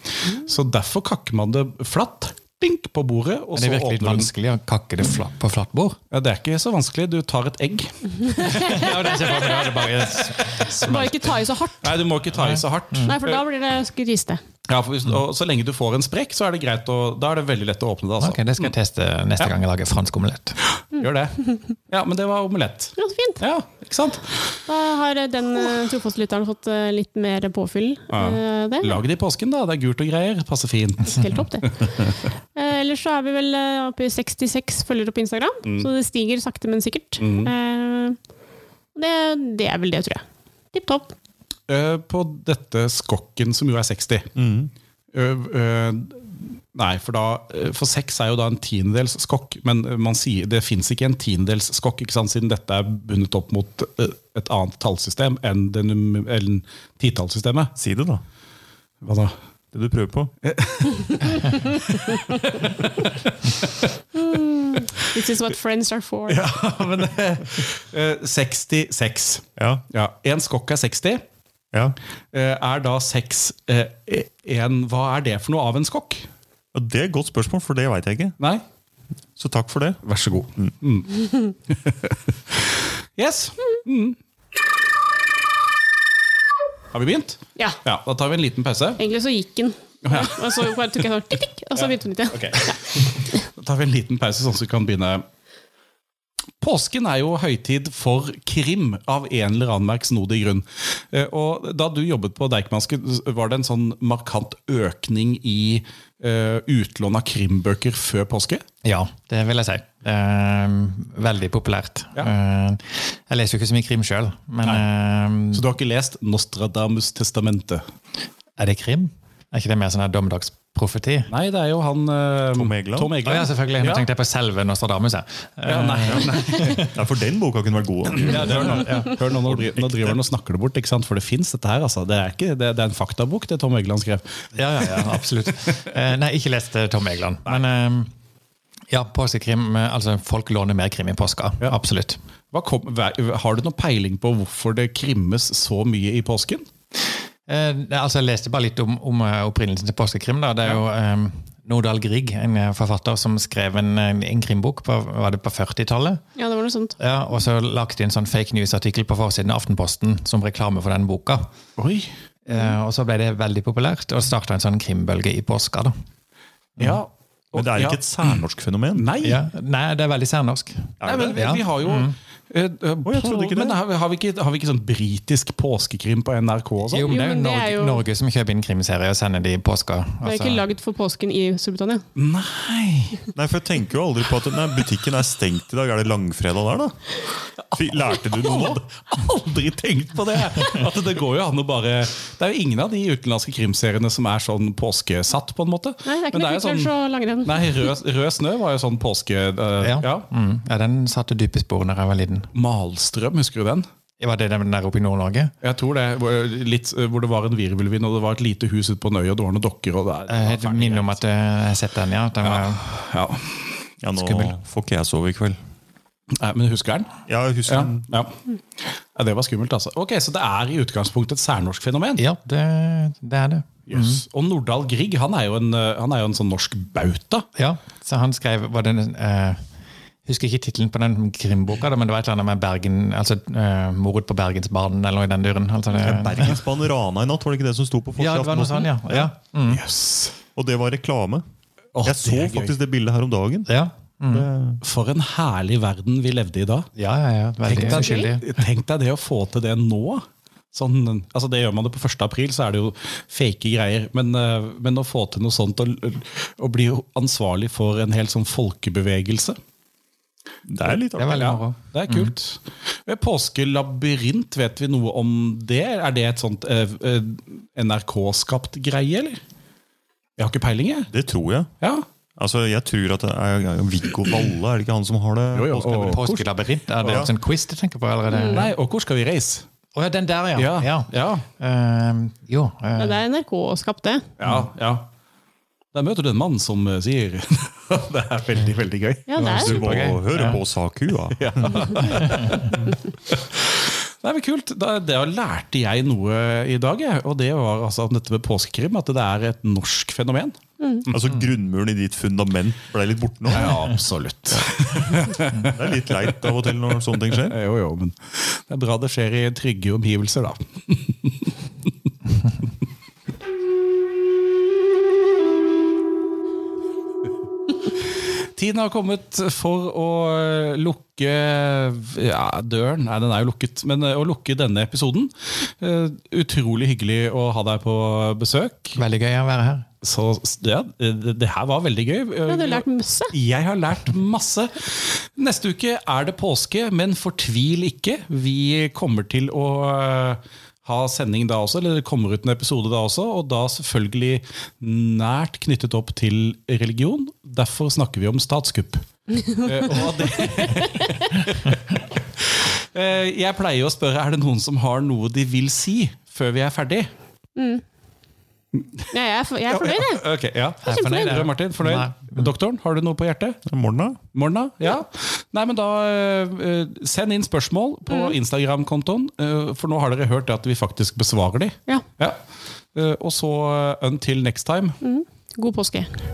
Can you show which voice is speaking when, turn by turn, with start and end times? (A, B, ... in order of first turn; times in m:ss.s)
0:00.2-0:04.3 A
0:03.5-0:06.0 B
0:06.1-0:08.8 A
0:08.2-0:09.7 C
0:08.5-0:11.3 B
0:10.7-0:12.0 C
0:11.8-0:13.4 A
0:12.4-0:13.2 B
0:13.0-0:14.4 C
0:14.6-0:18.7 A
0:18.2-0:20.6 B
0:20.8-0:24.4 A
0:23.0-0:23.4 C
0:24.7-0:29.0 C
0:28.1-0:32.1 A
0:31.0-0:38.2 C
0:35.6-0:35.9 A
0:37.2-0:37.5 A
0:38.9-0:41.1 C
0:41.7-0:44.3 A
0:44.3-0:44.7 D
0:45.1-0:57.7 A
0:57.8-0:58.2 D
0:59.0-0:59.3 A
0:59.7-1:00.3 D
1:00.4-1:03.7 A
1:04.1-1:06.4 C
1:06.3-1:11.2 A
1:09.6-1:09.8 D
1:12.3-1:16.3 A
1:16.7-1:18.4 D
1:19.4-1:20.0 D
1:20.0-1:24.2 A
1:26.9-1:29.0 A
1:29.0-1:32.8 C
1:30.0-1:30.8 A
1:31.8-1:35.2 A
1:36.6-1:48.6 A
1:48.8-1:55.6 B
1:55.5-1:57.8 A
1:58.6-2:01.3 B
2:01.3-2:04.1 A
2:02.5-2:03.2 D
2:03.2-2:06.9 B
2:05.6-2:06.9 A
2:06.7-2:10.2 D
2:08.1-2:15.7 A
2:08.2-2:09.2 B
2:14.5-2:18.1 B
2:18.9-2:22.2 B
2:22.5-2:26.6 A
2:27.5-2:36.2 B
2:36.4-2:37.0 C
2:37.0-2:41.5 B
2:41.8-2:42.1 A
2:42.4-2:45.9 B
2:46.8-2:48.4 A
2:47.5-2:49.1 D
2:48.9-2:49.4 A
2:49.2-2:52.2 B
2:51.0-2:51.4 D
2:51.0-2:57.1 A
2:53.0-2:53.8 D
2:56.9-3:00.6 B
2:57.0-2:58.0 C
3:00.2-3:02.0 C
3:02.2-3:03.2 A
3:03.3-3:07.0 D
3:07.7-3:16.9 A
3:07.7-3:08.8 D
3:16.0-3:17.9 C
3:17.4-3:20.3 A
3:19.8-3:22.5 B
3:22.5-3:23.8 A
3:24.2-3:25.5 B
3:25.6-3:31.2 A
3:30.3-3:32.8 B
3:32.4-3:33.7 A
3:34.0-3:35.6 D
3:34.1-3:34.6 B
3:36.3-3:42.2 A
3:37.3-3:38.1 D
3:42.2-3:44.2 B
3:43.9-3:47.5 A
3:47.6-3:49.6 B
3:50.2-3:56.6 B
3:56.0-3:59.3 D
3:58.2-3:59.8 B
3:59.7-4:00.4 A
4:00.5-4:01.4 D
4:01.9-4:02.7 A
4:02.0-4:03.7 D
4:03.7-4:04.5 B
4:04.3-4:04.8 D
4:04.8-4:06.9 A
4:07.0-4:08.6 B
4:07.6-4:19.6 A
4:07.7-4:08.3 C
4:20.7-4:21.5 D
4:21.2-4:22.3 B
4:21.3-4:29.4 A
4:30.4-4:31.1 A
4:31.1-4:31.7 D
4:32.4-4:36.2 D
4:35.5-4:36.4 A
4:36.0-4:38.7 B
4:37.0-4:37.3 D
4:38.3-4:38.7 C
4:38.4-4:39.6 A
4:39.9-4:43.2 B
4:40.6-4:41.4 A
4:43.0-4:44.3 C
4:44.4-4:45.1 A
4:45.9-4:49.4 A
4:49.3-4:49.8 C
4:49.4-4:50.6 B
4:49.4-4:52.9 D
4:51.4-5:01.2 A
4:52.2-4:52.7 B
5:01.1-5:03.9 D
5:03.5-5:05.8 A
5:04.5-5:07.6 D
5:07.3-5:11.9 A
5:18.5-5:29.0 A
5:29.0-5:29.8 B
5:30.0-5:57.1 A
5:32.5-5:33.3 C
5:49.3-5:51.3 C
5:57.6-5:57.8 C
5:58.7-5:59.1 A
5:59.1-6:00.2 C
5:59.7-6:03.6 A
6:00.8-6:02.5 B
6:00.9-6:01.3 C
6:03.6-6:04.2 D
6:04.3-6:12.4 A
6:08.1-6:08.4 C
6:12.9-6:15.0 A
6:15.0-6:16.1 C